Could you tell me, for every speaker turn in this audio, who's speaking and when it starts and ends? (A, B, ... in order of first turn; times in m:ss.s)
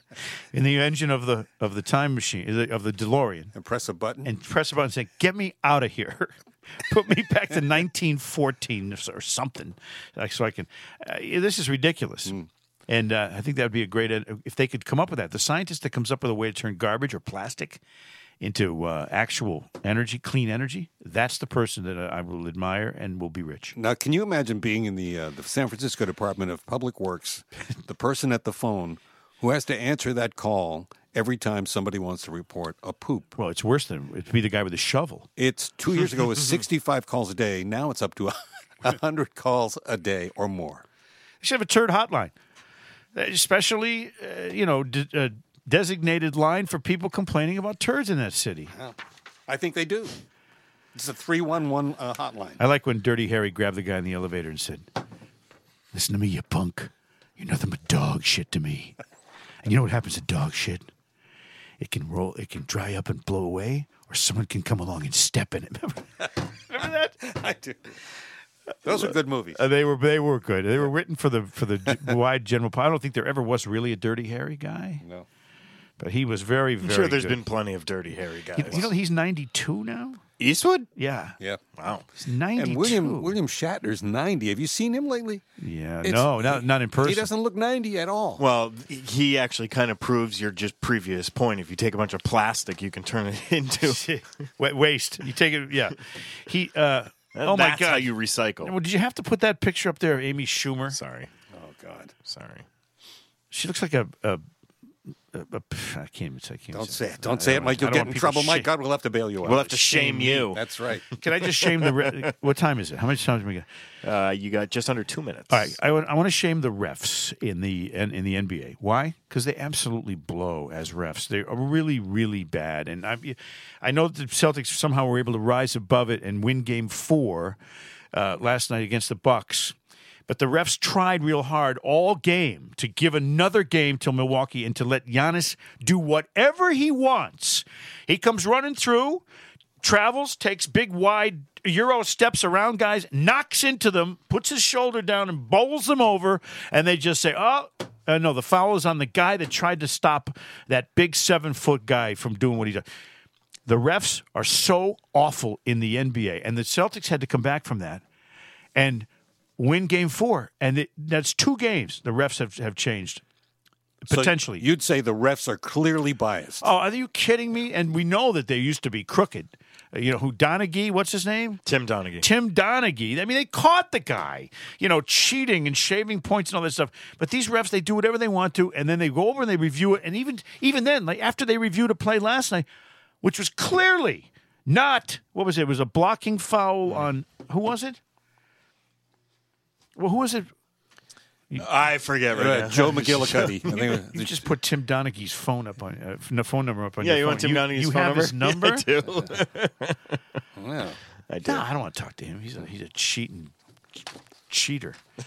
0:00.5-0:03.5 A
0:03.5-0:04.3 B
0:04.2-0:17.8 A
0:18.4-0:23.7 A
0:23.8-0:33.3 B
0:33.3-0:35.3 A
0:35.4-0:40.8 B
0:41.4-0:42.3 A
0:43.1-0:48.7 A
0:48.7-0:50.2 B
0:50.9-0:52.6 B
0:52.6-0:54.9 A
0:55.9-0:59.0 A
0:59.6-1:00.9 A
1:01.8-1:07.3 A
1:07.2-1:07.9 B
1:08.8-1:09.6 B
1:08.9-1:15.0 A
1:15.0-1:15.3 B
1:16.0-1:17.4 A
1:16.8-1:18.9 C
1:18.6-1:20.2 A
1:20.4-1:20.9 C
1:21.0-1:21.4 A
1:21.8-1:22.0 C
1:22.1-1:23.4 A
1:22.5-1:25.4 B
1:25.6-1:27.3 A
1:26.0-1:28.4 B
1:28.4-1:34.0 C
1:33.8-1:41.0 A
1:37.3-1:38.7 C
1:40.9-1:41.3 C
1:41.5-1:42.1 B
1:42.2-1:42.6 C
1:43.5-1:44.4 A
1:45.3-1:48.7 A
1:46.7-1:51.0 B
1:49.4-1:50.6 C
1:49.9-1:50.5 A
1:51.2-1:53.7 A
1:54.0-1:55.7 C
1:55.5-2:07.6 A
2:08.1-2:09.8 A
2:10.3-2:19.2 A
2:19.8-2:32.8 A
2:33.6-2:38.0 A
2:38.7-2:43.2 A
2:44.0-2:44.6 A
2:44.1-2:46.7 B
2:46.6-2:51.6 A
2:51.6-2:52.3 C
2:52.2-3:02.6 A
3:03.2-3:08.0 A
3:10.0-3:10.5 A
3:11.6-3:13.8 C
3:12.3-3:14.5 B
3:13.7-3:18.9 A
3:17.0-3:20.2 C
3:20.6-3:21.0 B
3:21.3-3:21.6 C
3:21.4-3:23.5 A
3:24.5-3:25.0 A